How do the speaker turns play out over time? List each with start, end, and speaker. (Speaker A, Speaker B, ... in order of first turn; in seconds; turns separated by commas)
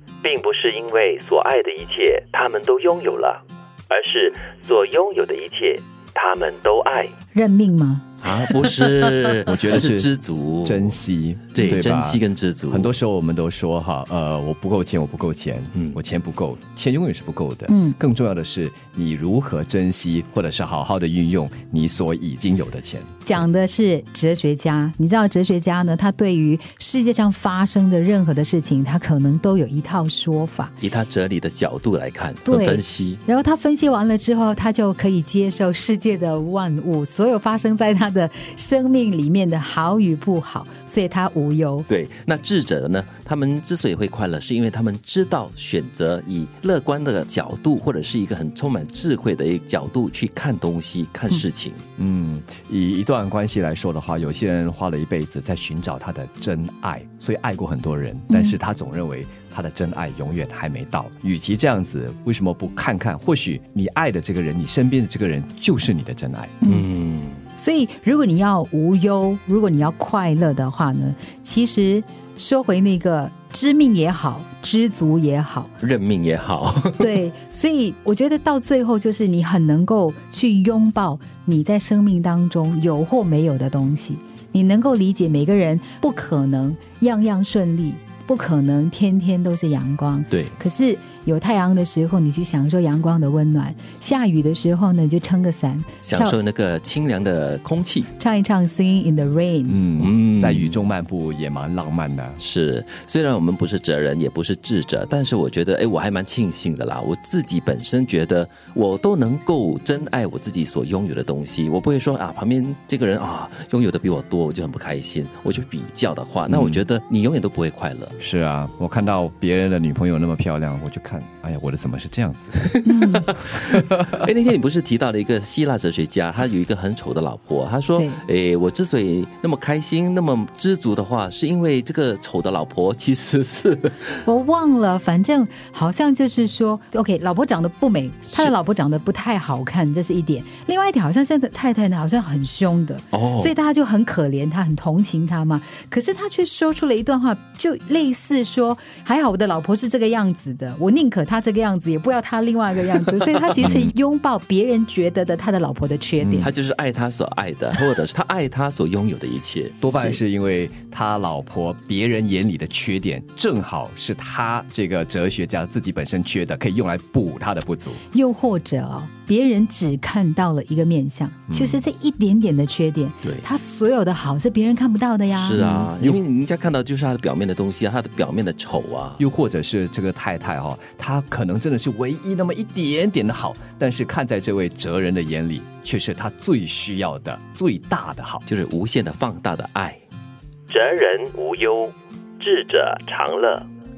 Speaker A: 0.2-7.1, Speaker B: 7.3-8.1, Speaker C: 8.2-10.9, Speaker D: 9.4-10.1, Speaker D: 10.7-23.1, Speaker C: 11.5-12.9, Speaker B: 17.7-18.0, Speaker B: 23.2-30.8, Speaker C: 30.8-33.2, Speaker B: 32.5-41.9, Speaker C: 41.9-51.8, Speaker D: 52.0-66.6, Speaker B: 58.3-58.6, Speaker B: 66.6-66.9, Speaker C: 66.6-67.4, Speaker B: 67.6-75.7, Speaker C: 75.8-77.2, Speaker B: 77.0-96.4, Speaker C: 96.0-98.1, Speaker B: 98.2-99.8, Speaker D: 99.7-102.4, Speaker C: 100.0-100.8, Speaker C: 102.4-118.2, Speaker D: 116.5-116.8, Speaker D: 118.2-122.7, Speaker C: 122.8-134.2, Speaker B: 122.8-123.3, Speaker D: 123.5-124.1, Speaker B: 128.0-128.2, Speaker B: 134.2-156.5, Speaker C: 143.1-143.5, Speaker D: 156.2-156.5, Speaker C: 156.4-160.2, Speaker D: 159.8-168.0, Speaker B: 168.1-175.9, Speaker D: 171.5-171.8, Speaker C: 175.3-179.2, Speaker D: 175.6-176.2, Speaker D: 179.2-188.4, Speaker C: 188.5-190.0, Speaker A: 190.7-193.7